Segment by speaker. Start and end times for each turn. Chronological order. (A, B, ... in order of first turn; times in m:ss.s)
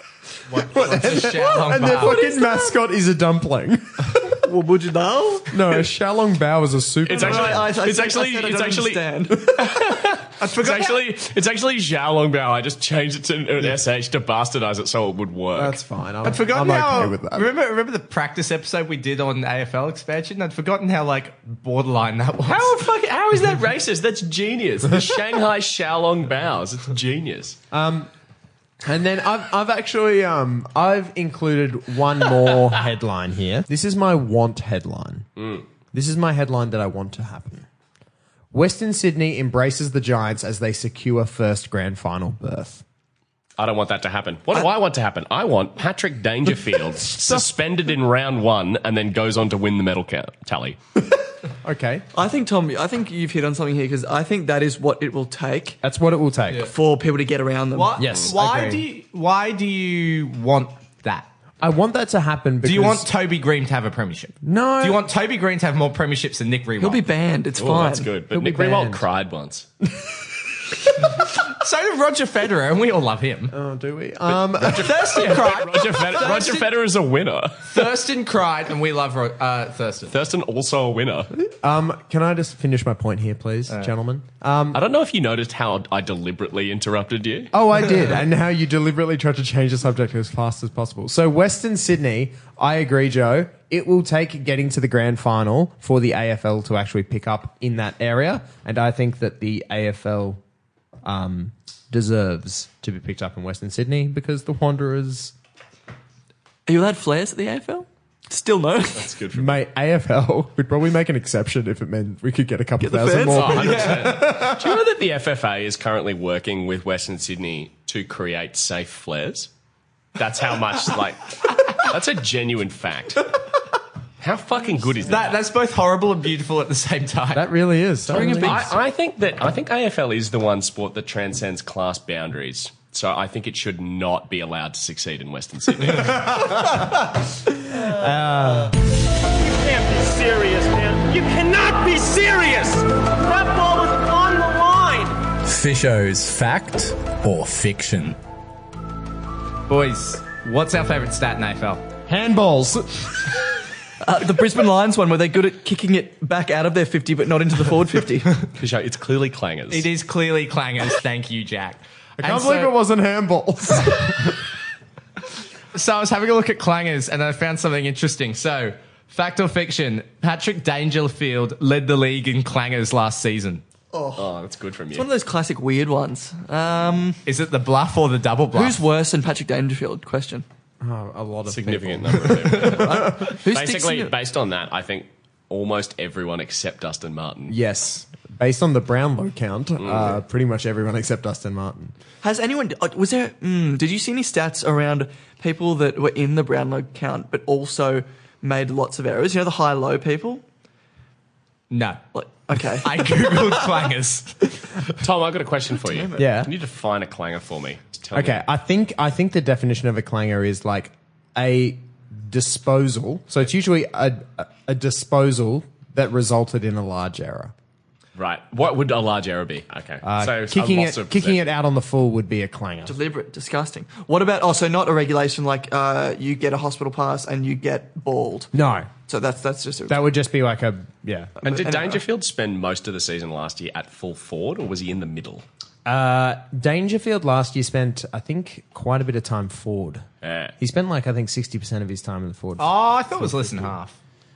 0:00.5-0:02.3 A
0:00.6-0:04.4 B
0:04.4-0:05.8 C
0:05.5-0:07.7 B
0:07.0-0:15.8 D
0:07.1-0:09.5 C
0:10.4-0:11.0 A
0:15.6-0:17.5 B
0:16.2-0:22.7 A
0:22.4-0:27.6 D
0:27.7-0:28.1 B
0:28.8-0:35.3 B
0:35.4-0:35.6 D
0:35.9-0:37.7 B
0:38.5-0:42.8 B
0:43.6-0:50.8 D
0:51.6-0:52.1 B
0:52.1-0:55.8 C
0:55.8-0:56.7 B
0:56.6-0:58.0 C
0:57.7-1:01.3 A
0:58.0-0:58.8 B
1:01.6-1:03.1 B
1:02.6-1:07.1 A
1:04.4-1:05.0 B
1:06.8-1:08.1 C
1:07.6-1:09.7 D
1:08.3-1:09.0 B
1:11.2-1:13.6 A
1:13.5-1:15.4 B
1:14.3-1:17.8 D
1:14.8-1:16.7 A
1:16.3-1:16.6 C
1:17.6-1:20.1 A
1:20.1-1:21.3 D
1:21.5-1:24.8 B
1:24.7-1:27.5 D
1:27.5-1:40.4 B
1:41.0-1:45.3 B
1:46.7-1:49.1 C
1:48.9-1:49.6 D
1:49.3-1:54.8 B
1:52.8-1:54.0 C
1:53.3-1:59.5 D
2:00.2-2:03.4 D
2:04.2-2:05.4 D
2:05.1-2:07.5 A
2:07.3-2:08.7 B
2:08.1-2:08.8 C
2:08.1-2:16.6 D
2:15.9-2:18.8 B
2:19.2-2:25.3 E
2:25.5-2:28.2 A
2:29.7-2:31.8 A
2:32.1-2:33.4 B
2:34.0-2:38.4 C
2:38.5-2:39.9 D
2:39.7-2:42.7 A
2:42.2-2:44.4 B
2:45.7-2:53.6 A
2:53.9-2:54.3 C
2:54.2-2:55.1 D
2:54.9-2:57.2 C
2:57.3-2:58.8 A
2:58.5-3:00.4 C
3:00.8-3:03.3 B
3:01.5-3:07.6 D
3:02.5-3:04.1 C
3:07.5-3:11.9 B
3:09.8-3:10.2 D
3:12.2-3:20.4 C
3:21.7-3:22.0 A
3:22.1-3:23.5 C
3:22.6-3:24.5 A
3:25.0-3:28.4 D
3:25.8-3:26.3 C
3:26.2-3:26.5 B
3:28.1-3:37.5 B
3:38.2-3:41.4 D
3:40.0-3:43.0 B
3:42.9-3:48.5 C
3:48.5-3:48.9 B
3:49.1-3:50.0 C
3:49.9-3:51.4 B
3:51.4-3:55.4 D
3:51.5-3:52.0 C
3:55.8-4:00.1 B
4:00.2-4:00.5 D
4:00.6-4:03.7 B
4:02.6-4:04.0 A